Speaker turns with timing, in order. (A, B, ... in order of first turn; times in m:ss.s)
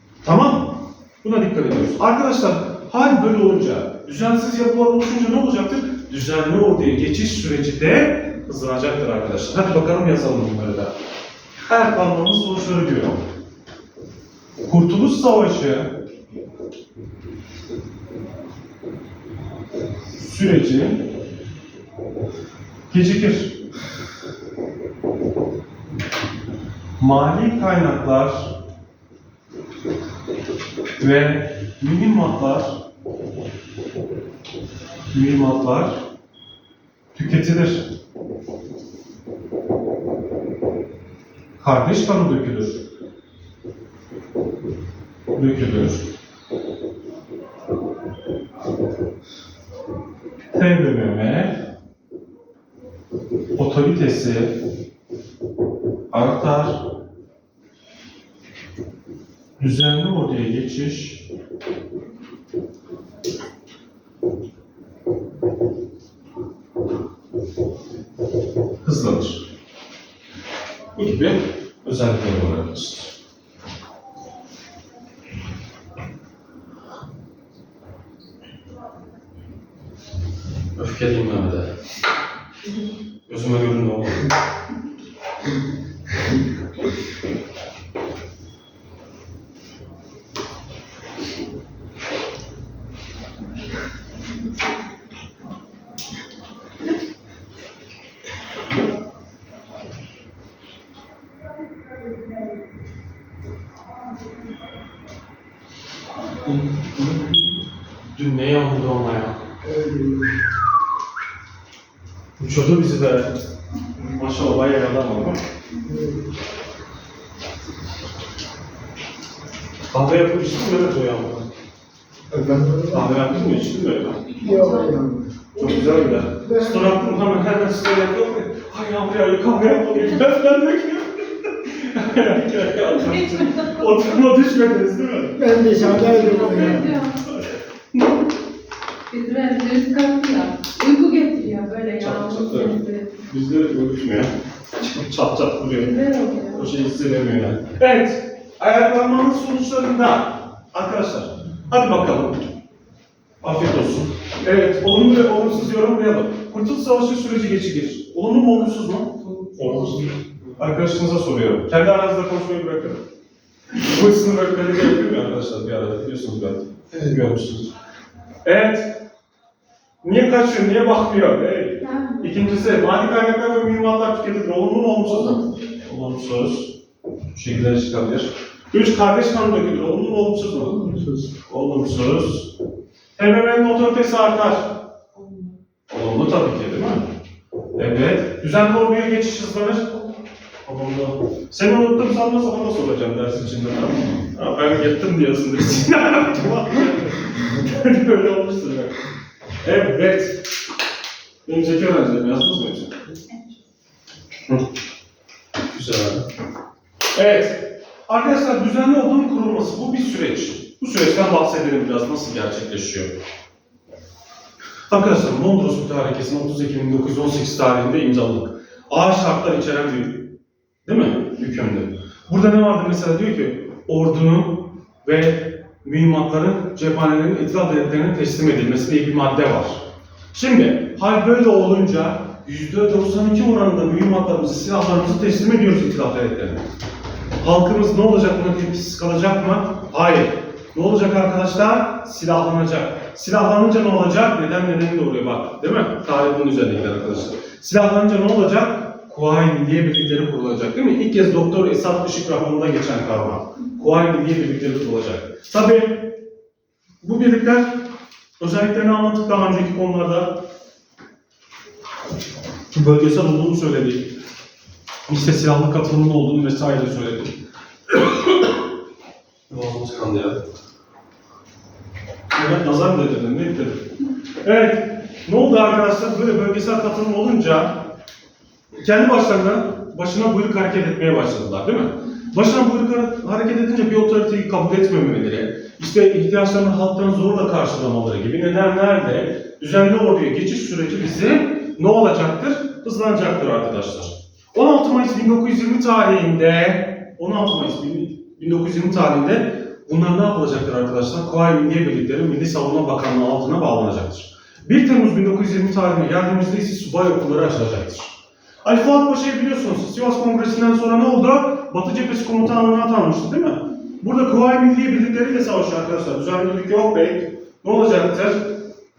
0:00.2-0:10.9 A
0:11.7-0:13.2 A
0:14.6-0:15.9 A
0:20.2-0:21.1 A
0:22.9-0:23.6 A
0:27.0-0:28.6 A
0:31.0-0:32.8 A
0:35.1-0:36.0 A
0:37.2-0:37.9 A
0:41.6-0:42.8 A
0:45.3-0:46.0 A
0:50.5-0:51.6 A
0:53.6-0:54.6 A
0:56.1-0:56.8 A
0:59.6-1:01.3 A
1:08.8-1:09.4 A
1:11.0-1:13.1 A
1:20.8-1:21.7 A
1:23.3-1:24.3 A
1:46.4-1:47.6 A
1:48.1-1:49.4 A
1:49.6-1:50.4 B
1:52.4-1:53.4 A
1:54.0-1:55.4 A
1:55.8-1:56.3 B
1:59.9-2:01.5 A
2:02.3-2:03.6 B
2:02.9-2:04.3 A
2:04.4-2:06.2 C
2:04.4-2:05.2 B
2:05.6-2:17.4 A
2:06.4-2:07.1 B
2:13.1-2:13.8 C
2:15.4-2:16.9 B
2:16.0-2:17.2 C
2:19.1-2:23.1 C
2:22.0-2:26.0 A
2:25.8-2:26.7 C
2:26.5-2:32.4 A
2:33.4-2:40.1 A
2:39.6-2:40.1 B
2:40.6-2:43.0 A
2:43.8-2:47.7 A
2:48.4-2:48.9 A
2:50.0-2:56.7 A
2:51.8-2:52.7 C
2:57.3-3:00.8 A
3:00.6-3:01.3 B
3:01.5-3:02.5 A
3:03.2-3:04.8 A
3:05.2-3:05.5 C
3:05.9-3:07.1 A
3:07.8-3:10.0 A
3:10.6-3:19.0 A
3:19.6-3:20.4 A
3:21.5-3:23.0 A
3:25.7-3:26.2 A
3:27.1-3:33.1 A
3:34.9-3:40.4 A
3:40.9-3:56.7 A
3:57.4-4:16.2 A
4:17.0-4:17.9 A
4:18.4-4:20.4 A
4:22.7-4:24.1 A
4:25.1-4:27.4 A
4:27.9-4:28.5 A
4:29.5-4:30.4 A
4:32.3-4:33.9 A
4:34.4-4:37.9 A
4:38.8-5:18.5 A